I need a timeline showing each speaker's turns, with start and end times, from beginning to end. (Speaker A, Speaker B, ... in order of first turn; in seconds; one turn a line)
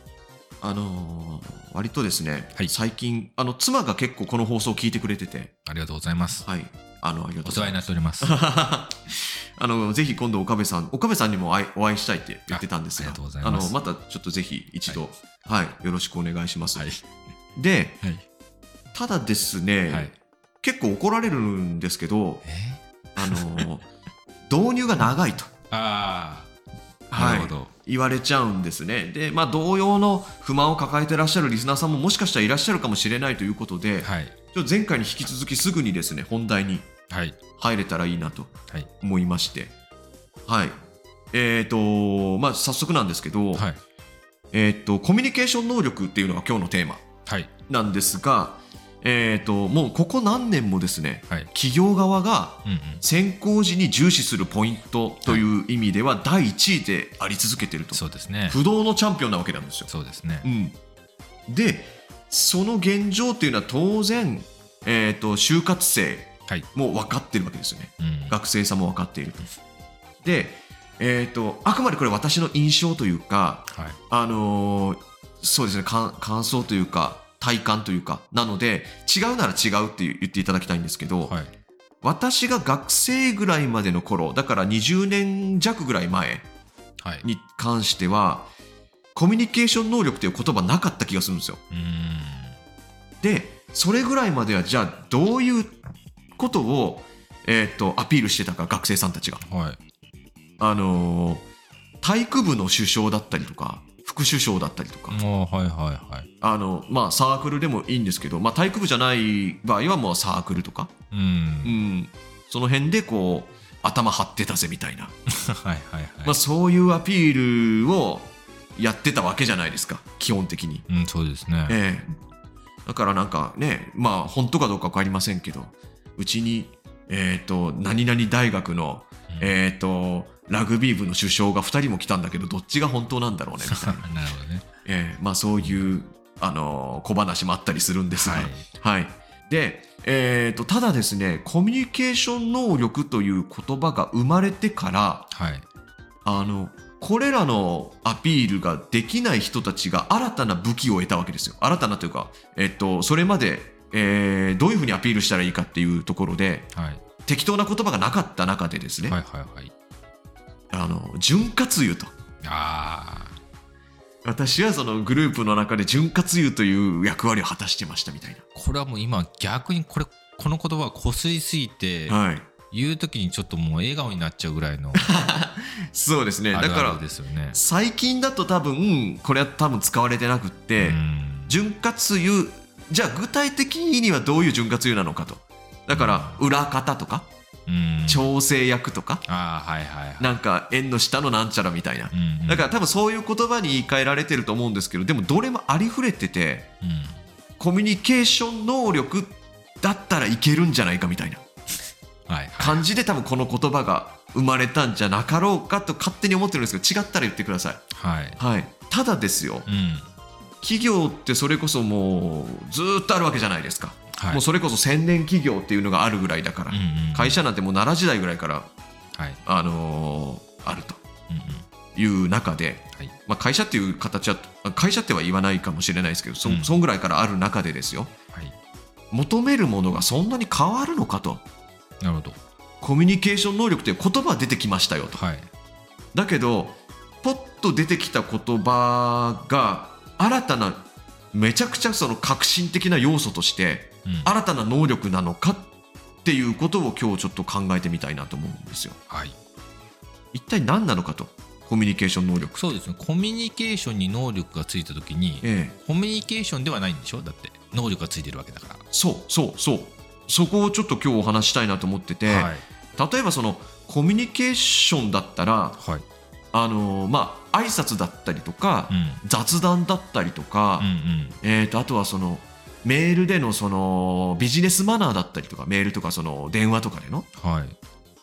Speaker A: 0.6-5.5
Speaker B: 5.6-6.5
Speaker A: 6.4-16.9
Speaker B: 7.4-8.4
Speaker B: 12.5-13.8
Speaker B: 16.7-17.0
Speaker A: 17.6-18.0
Speaker A: 18.9-20.1
Speaker B: 19.9-20.1
Speaker A: 20.6-22.4
Speaker B: 22.4-23.7
Speaker A: 23.2-23.8
Speaker A: 24.5-25.5
Speaker B: 25.7-26.5
Speaker A: 27.1-36.9
Speaker B: 27.1-27.7
Speaker B: 34.0-34.3
Speaker B: 37.1-37.4
Speaker A: 37.6-39.7
Speaker A: 40.5-40.8
Speaker A: 41.3-43.6
Speaker B: 43.5-43.8
Speaker A: 44.5-47.0
Speaker A: 47.7-59.9
Speaker B: 52.6-53.0
Speaker B: 57.9-58.6
Speaker B: 59.9-60.5
Speaker A: 60.4-60.8
Speaker A: 61.5-69.5
Speaker B: 68.0-68.4
Speaker A: 70.2-81.3
Speaker B: 73.7-74.0
Speaker A: 82.0-86.5
Speaker A: 87.2-88.5
Speaker A: 89.1-91.6
Speaker B: 91.7-92.6
Speaker A: 93.2-95.8
Speaker A: 96.3-99.4
Speaker B: 99.4-99.8
Speaker A: 100.6-101.5
Speaker A: 102.0-105.2
Speaker B: 105.1-106.3
Speaker A: 106.4-110.9
Speaker B: 111.1-111.8
Speaker A: 111.6-115.1
Speaker B: 115.3-116.4
Speaker A: 116.2-120.8
Speaker B: 120.9-121.8
Speaker A: 121.7-122.1
Speaker A: 122.8-134.1
Speaker B: 129.3-129.5
Speaker B: 133.6-134.6
Speaker A: 134.8-145.3
Speaker B: 135.6-135.8
Speaker B: 138.1-138.6
Speaker B: 145.3-145.7
Speaker A: 146.2-156.7
Speaker B: 156.7-157.0
Speaker A: 157.2-159.2
Speaker B: 159.0-159.7
Speaker A: 160.7-162.1
Speaker B: 162.4-163.4
Speaker A: 164.2-168.4
Speaker B: 168.5-175.1
Speaker A: 172.1-172.5
Speaker A: 174.9-187.3
Speaker B: 176.5-177.6
Speaker B: 180.8-181.6
Speaker B: 185.9-186.4
Speaker B: 187.7-188.3
Speaker A: 188.1-189.2
Speaker B: 189.3-190.3
Speaker A: 190.2-196.7
Speaker B: 192.1-192.7
Speaker B: 196.8-197.2
Speaker A: 197.6-201.4
Speaker B: 202.3-202.8
Speaker A: 202.6-207.8
Speaker B: 207.9-208.4
Speaker A: 208.4-209.7
Speaker B: 209.7-210.1
Speaker A: 210.6-218.7
Speaker B: 214.1-214.4
Speaker B: 216.7-217.4
Speaker A: 219.4-221.0
Speaker B: 221.3-221.7
Speaker A: 221.9-228.1
Speaker B: 226.4-226.8
Speaker A: 229.1-231.4
Speaker B: 232.0-232.4
Speaker A: 232.8-235.2
Speaker B: 235.1-235.5
Speaker A: 236.1-245.7
Speaker B: 244.0-244.3
Speaker A: 246.2-249.0
Speaker B: 249.1-249.3
Speaker A: 250.3-252.8
Speaker B: 252.5-258.8
Speaker A: 255.4-255.7
Speaker A: 258.9-265.8
Speaker B: 262.2-262.6
Speaker B: 265.8-266.0
Speaker A: 266.5-277.3
Speaker B: 268.9-269.2
Speaker B: 270.8-271.4
Speaker B: 277.4-277.8